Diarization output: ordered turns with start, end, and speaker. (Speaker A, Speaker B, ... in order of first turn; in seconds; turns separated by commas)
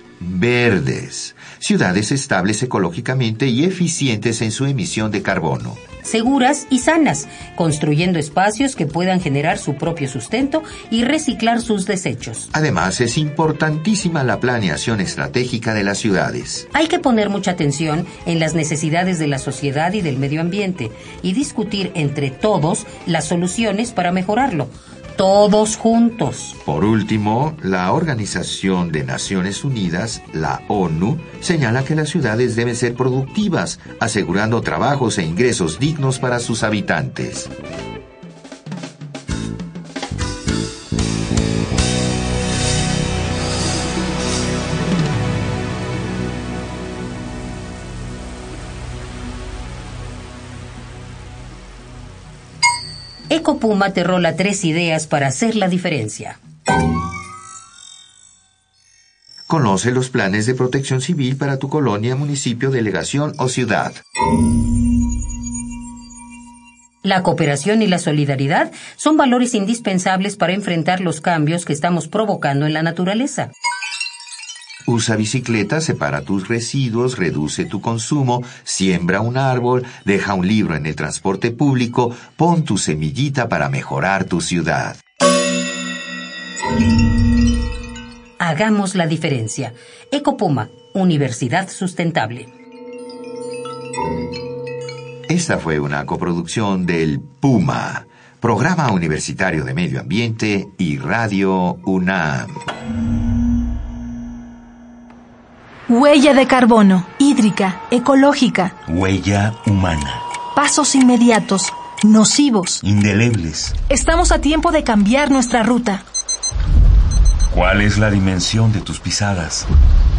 Speaker A: 0.2-5.8, Speaker B: 6.0-12.5, Speaker A: 12.5-16.7, Speaker B: 16.7-26.6, Speaker A: 26.6-37.5, Speaker B: 53.3-56.4, Speaker A: 59.5-64.0, Speaker B: 67.0-73.5, Speaker A: 74.9-85.0, Speaker B: 88.4-92.5, Speaker A: 95.3-102.7, Speaker C: 105.9-108.8, Speaker D: 108.9-110.2, Speaker C: 110.5-112.8, Speaker D: 112.8-113.8, Speaker C: 113.9-116.0, Speaker D: 117.5-119.7